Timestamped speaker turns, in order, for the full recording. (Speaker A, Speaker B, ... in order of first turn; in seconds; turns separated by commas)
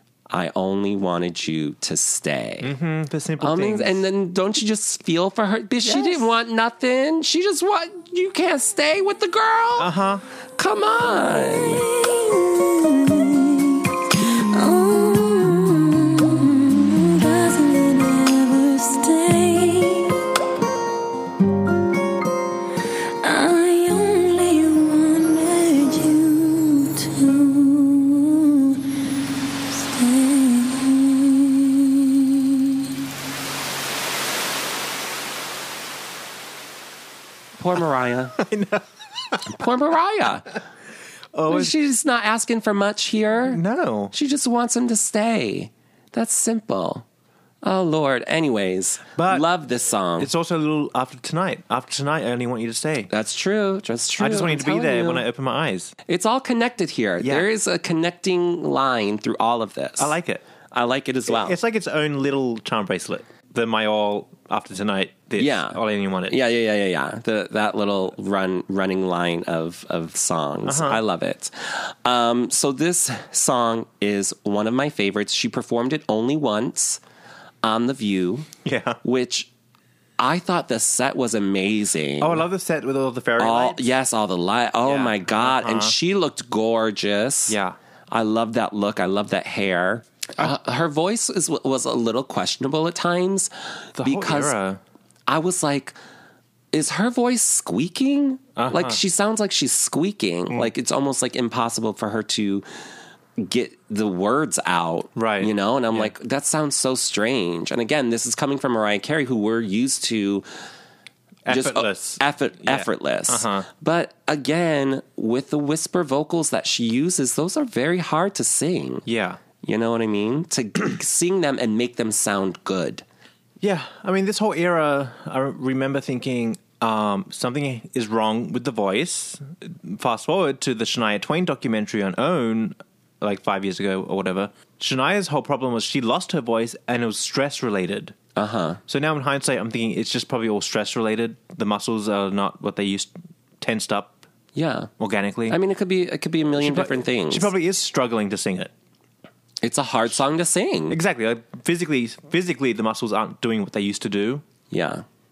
Speaker A: 0.3-2.7, Speaker B: 2.6-4.0, Speaker A: 3.4-9.9, Speaker B: 5.8-6.2, Speaker B: 9.8-10.2, Speaker A: 10.6-11.8, Speaker C: 11.2-20.3, Speaker C: 23.2-28.8, Speaker C: 29.7-32.8, Speaker A: 37.6-38.4, Speaker B: 38.4-38.8, Speaker A: 39.5-40.5, Speaker B: 41.3-41.7, Speaker A: 41.5-43.6, Speaker B: 43.5-44.1, Speaker A: 44.1-47.0, Speaker A: 47.6-50.3, Speaker B: 49.2-49.5, Speaker B: 50.2-53.1, Speaker A: 53.1-55.2, Speaker B: 54.2-55.9, Speaker A: 56.1-60.1, Speaker B: 57.2-57.5, Speaker B: 60.0-60.4, Speaker A: 60.7-61.6, Speaker B: 61.3-66.4, Speaker A: 65.4-77.0, Speaker B: 70.7-71.0, Speaker A: 77.6-78.5, Speaker B: 78.7-79.0, Speaker A: 79.0-79.5, Speaker A: 80.2-82.4, Speaker B: 82.2-83.9, Speaker A: 83.4-87.6, Speaker B: 84.8-86.0, Speaker B: 87.5-87.8, Speaker A: 88.1-93.5, Speaker B: 94.0-94.8, Speaker A: 94.0-94.5, Speaker A: 95.3-96.0, Speaker A: 96.7-102.7, Speaker B: 98.6-99.0, Speaker A: 103.4-110.5, Speaker B: 105.2-106.1, Speaker B: 111.5-113.7, Speaker A: 111.5-119.0, Speaker B: 119.1-119.4, Speaker A: 119.6-123.0, Speaker B: 123.6-138.2, Speaker A: 138.4-138.8, Speaker B: 138.9-143.1, Speaker B: 143.6-144.2, Speaker A: 144.6-144.9, Speaker B: 145.0-145.6, Speaker A: 145.5-147.5, Speaker B: 146.6-148.7, Speaker A: 149.6-151.0, Speaker B: 150.9-154.4, Speaker A: 154.7-155.1